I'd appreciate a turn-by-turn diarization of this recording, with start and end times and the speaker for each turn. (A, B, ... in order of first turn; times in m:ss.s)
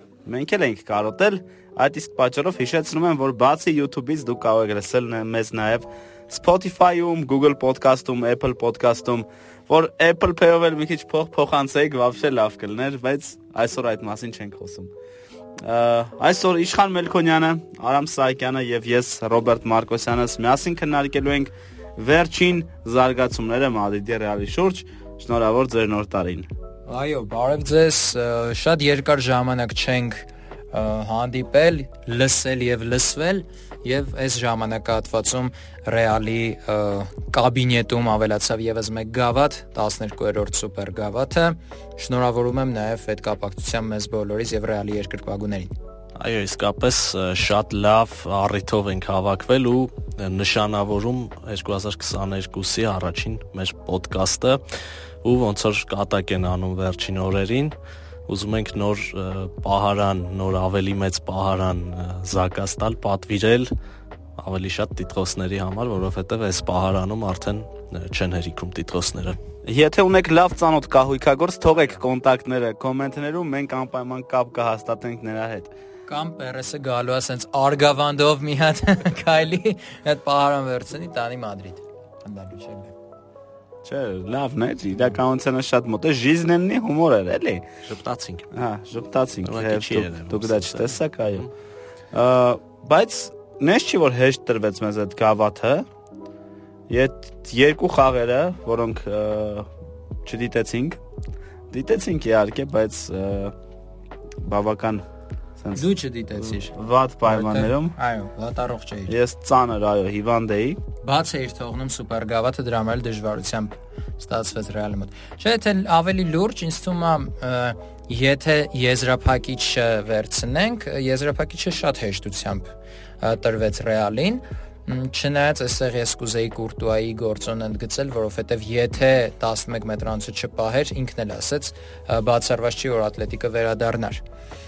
0:00.2-0:14.9 A
0:15.6-0:26.5 A
0:26.9-0:45.7 B
0:46.2-0:54.6 C
0:55.2-0:57.8 C
0:58.3-1:03.7 C
1:04.4-1:09.4 C
1:09.6-1:15.7 A
1:16.1-1:22.9 B
1:23.8-1:27.7 A
1:27.9-1:28.5 C
1:28.5-1:31.5 A
1:29.4-1:31.4 C
1:32.1-1:35.9 A
1:36.9-1:39.7 A
1:40.2-1:41.0 A
1:41.7-1:43.6 A
1:44.4-1:45.0 A
1:45.6-1:45.8 A
1:45.7-1:46.8 B
1:46.4-1:48.0 A
1:47.3-1:49.2 B
1:49.1-1:50.8 A
1:51.0-2:14.2 B